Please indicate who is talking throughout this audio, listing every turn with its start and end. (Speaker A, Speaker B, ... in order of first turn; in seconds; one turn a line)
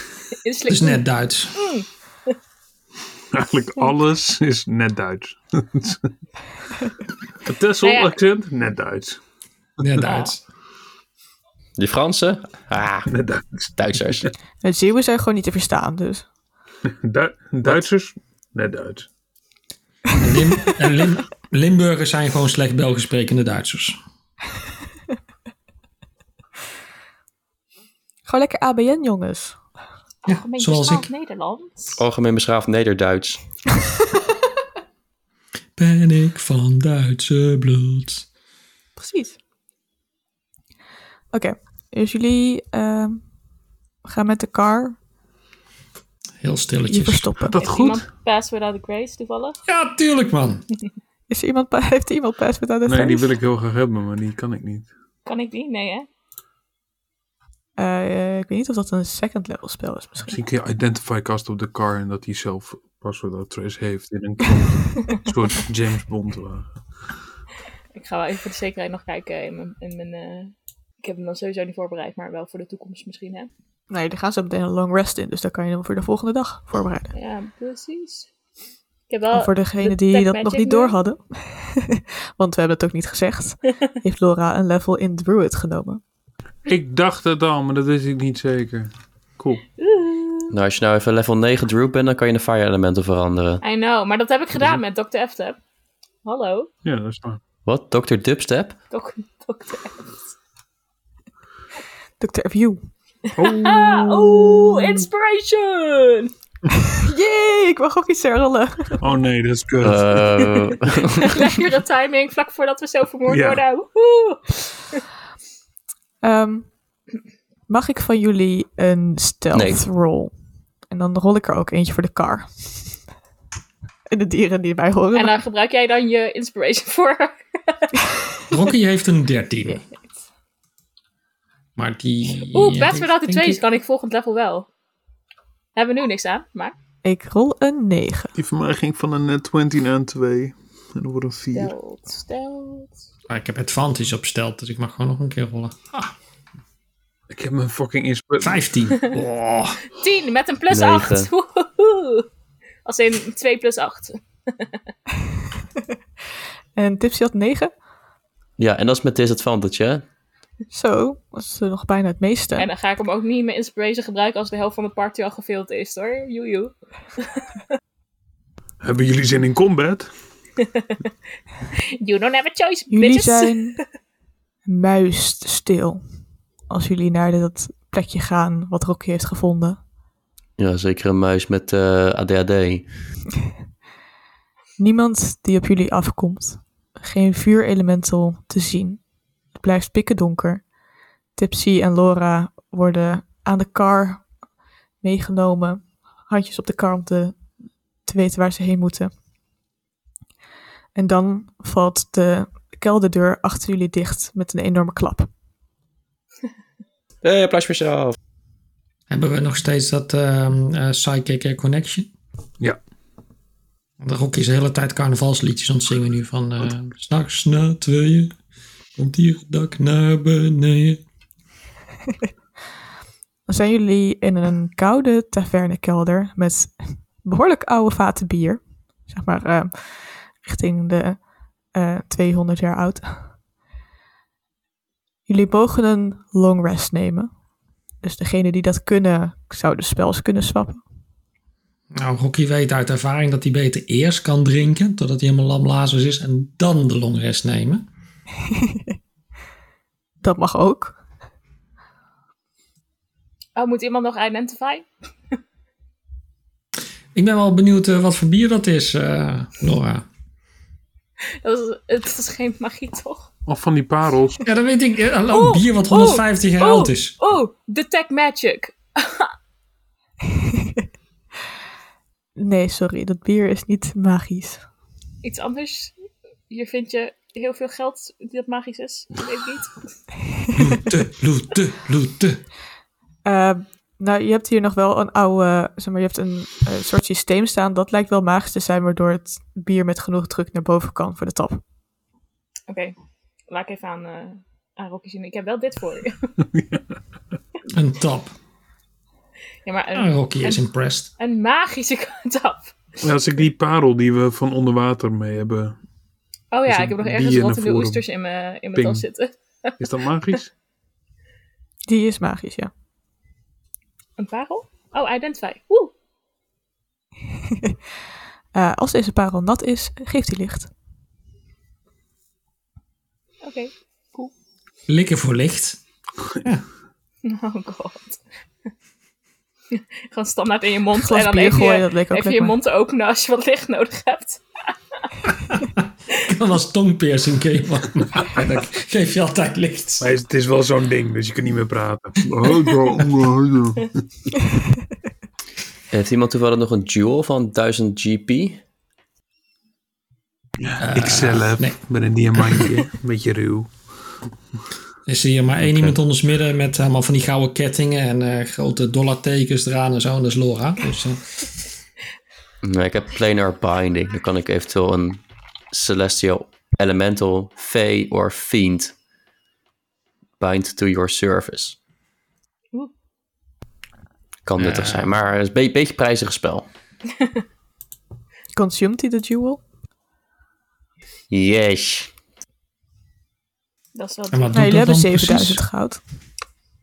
Speaker A: 0.3-1.0
Speaker B: 0.7-1.6
Speaker A: 1.5-1.9
Speaker C: 3.3-6.1
Speaker C: 7.4-9.2
Speaker A: 7.8-8.2
Speaker B: 9.8-10.4
Speaker A: 10.0-10.3
Speaker D: 11.8-13.1
Speaker C: 13.1-14.2
Speaker D: 13.8-14.3
Speaker E: 14.6-16.2
Speaker C: 16.9-19.1
Speaker B: 20.2-24.0
Speaker E: 28.2-29.6
Speaker B: 30.2-31.1
Speaker A: 30.2-32.0
Speaker D: 31.9-33.4
Speaker B: 35.8-38.2
Speaker E: 39.0-39.4
Speaker E: 41.3-43.2
Speaker E: 44.0-45.0
Speaker B: 46.4-47.3
Speaker E: 46.9-47.6
Speaker C: 47.5-48.0
Speaker A: 47.6-49.6
Speaker B: 49.7-50.6
Speaker E: 51.3-53.3
Speaker C: 52.9-54.9
Speaker A: 55.2-56.1
Speaker E: 57.8-60.4
Speaker C: 60.2-66.8
Speaker A: 67.9-73.5
Speaker E: 73.9-77.1
Speaker A: 77.1-78.3
Speaker A: 79.1-81.0
Speaker E: 79.3-86.0
Speaker C: 86.7-89.6
Speaker A: 89.8-90.5
Speaker D: 90.5-93.6
Speaker A: 93.6-95.6
Speaker A: 96.2-96.7
Speaker C: 96.8-97.4
Speaker D: 97.6-98.8
Speaker A: 98.9-100.3
Speaker E: 102.2-102.9
Speaker C: 103.4-105.0
Speaker A: 103.4-106.3
Speaker E: 106.9-109.0
Speaker C: 109.0-110.6
Speaker D: 109.8-111.4
Speaker A: 111.2-115.0
Speaker C: 113.3-113.6
Speaker E: 116.2-116.7
Speaker E: 117.7-120.3
Speaker D: 119.5-119.8
Speaker E: 120.9-123.0
Speaker E: 124.1-125.3
Speaker A: 125.1-127.9
Speaker B: 128.5-129.8
Speaker B: 131.8-133.6
Speaker A: 132.5-134.7
Speaker A: 135.8-136.8
Speaker E: 137.0-138.3
Speaker C: 138.3-141.7
Speaker A: 141.5-143.0
Speaker B: 143.3-146.1
Speaker C: 147.3-148.6
Speaker B: 148.4-149.8
Speaker A: 149.9-152.3
Speaker D: 150.7-151.3
Speaker A: 152.8-154.7
Speaker E: 156.8-157.7
Speaker D: 158.6-160.0
Speaker E: 160.7-162.7
Speaker A: 162.6-167.4
Speaker C: 168.8-170.1
Speaker A: 172.0-173.8
Speaker E: 172.9-173.8
Speaker E: 174.6-176.0
Speaker E: 176.7-179.8
Speaker D: 180.6-182.9
Speaker E: 184.8-189.0
Speaker E: 189.5-190.6
Speaker E: 191.3-194.3
Speaker E: 195.0-197.4
Speaker E: 198.0-199.1
Speaker E: 200.9-205.3
Speaker D: 207.2-208.2
Speaker B: 209.1-212.1
Speaker B: 214.0-218.3
Speaker B: 219.0-221.0
Speaker E: 223.4-233.3
Speaker E: 235.3-237.3
Speaker E: 238.0-240.8
Speaker B: 241.9-247.8
Speaker E: 248.5-248.9
Speaker E: 250.2-251.0
Speaker A: 253.6-254.9
Speaker B: 257.1-260.1
Speaker A: 261.4-263.3
Speaker C: 263.5-264.4
Speaker B: 264.4-267.1
Speaker A: 265.3-269.3
Speaker E: 272.4-274.6
Speaker A: 275.2-275.9
Speaker A: 276.5-279.9
Speaker B: 280.6-282.4
Speaker E: 283.2-291.6
Speaker A: 292.7-292.9
Speaker A: 293.5-296.3
Speaker C: 296.5-296.8
Speaker B: 297.7-298.3
Speaker A: 299.6-300.6
Speaker B: 299.9-301.1
Speaker A: 301.2-302.8
Speaker C: 303.0-305.8
Speaker A: 306.5-309.8
Speaker C: 306.7-308.0
Speaker C: 308.7-309.0
Speaker C: 309.8-310.5
Speaker E: 311.9-312.7
Speaker A: 314.2-315.9
Speaker E: 317.5-317.8
Speaker E: 318.5-320.7
Speaker A: 323.4-324.3
Speaker B: 324.9-325.8
Speaker B: 326.3-326.6
Speaker A: 327.2-328.2
Speaker A: 329.7-334.4
Speaker E: 330.9-332.5
Speaker B: 335.5-340.1
Speaker C: 340.0-344.0
Speaker D: 345.9-348.6
Speaker C: 350.6-353.7
Speaker B: 350.8-351.8
Speaker B: 352.3-352.7
Speaker B: 355.1-361.4
Speaker D: 362.6-368.9
Speaker D: 370.4-371.8
Speaker D: 374.4-376.6
Speaker B: 374.6-375.1
Speaker E: 378.5-379.6
Speaker D: 381.3-382.1
Speaker A: 383.9-384.5
Speaker B: 384.3-385.6
Speaker E: 384.5-386.0